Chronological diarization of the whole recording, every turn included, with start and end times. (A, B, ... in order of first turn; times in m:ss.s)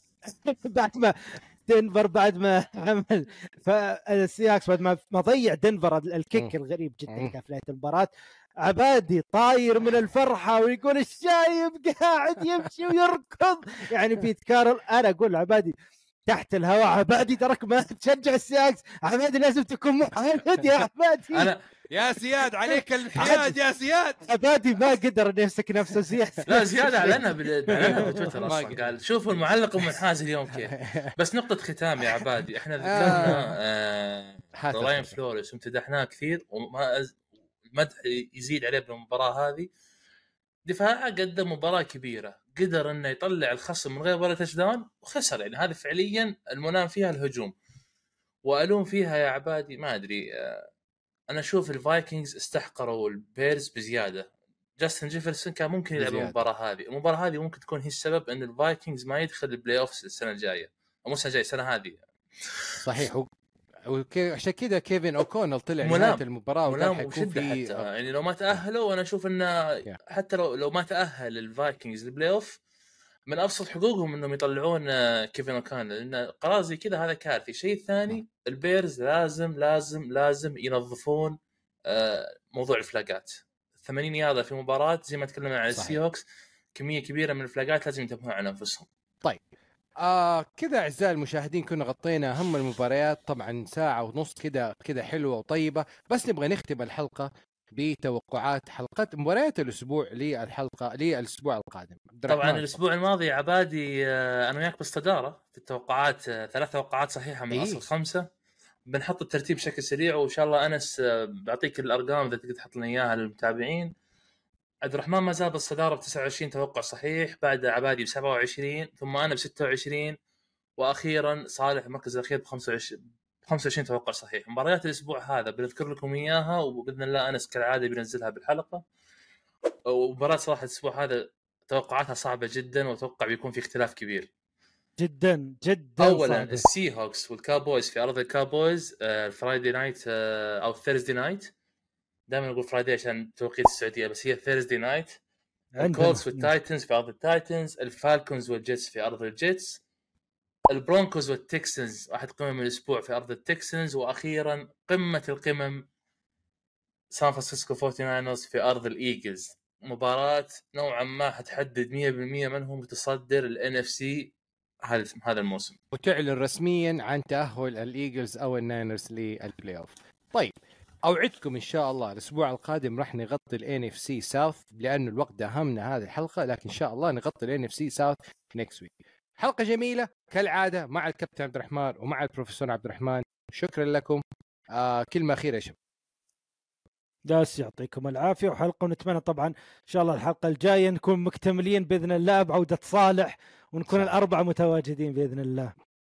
0:00.2-0:15.7 A
0:07.1-0:07.3 B
0:16.3-0:21.5 A
0:21.3-0:21.6 C
0:21.9-0:24.2 B
0:22.7-0:23.6 A
0:24.2-0:28.5 A
0:26.4-0:37.2 C
0:27.8-0:29.4 B
0:30.7-0:31.1 B
0:32.8-0:33.4 B
0:33.0-0:33.4 A
0:34.6-0:35.2 B
0:37.7-0:39.7 C
0:40.6-0:47.5 C
0:48.4-0:50.6 C
0:51.3-1:03.0 C
0:56.0-0:56.4 B
1:02.8-1:03.3 B
1:03.9-1:07.8 B
1:05.8-1:12.6 C
1:13.3-1:21.4 C
1:21.9-1:26.2 C
1:25.7-1:26.0 B
1:26.7-1:28.9 C
1:30.0-1:42.8 B
1:42.3-1:48.2 C
1:47.5-1:47.8 B
1:48.9-1:53.9 C
1:54.8-2:00.2 C
2:00.8-2:08.8 C
2:09.9-2:14.3 C
2:15.0-2:16.6 A
2:16.0-2:21.5 C
2:22.3-2:25.2 C
2:25.8-2:26.5 A
2:25.8-2:29.8 C
2:30.7-2:35.8 C
2:37.1-2:45.7 C
2:45.9-2:50.5 B
2:51.1-3:04.2 B
3:04.7-3:05.7 B
3:07.3-3:15.7 A
3:13.9-3:14.1 B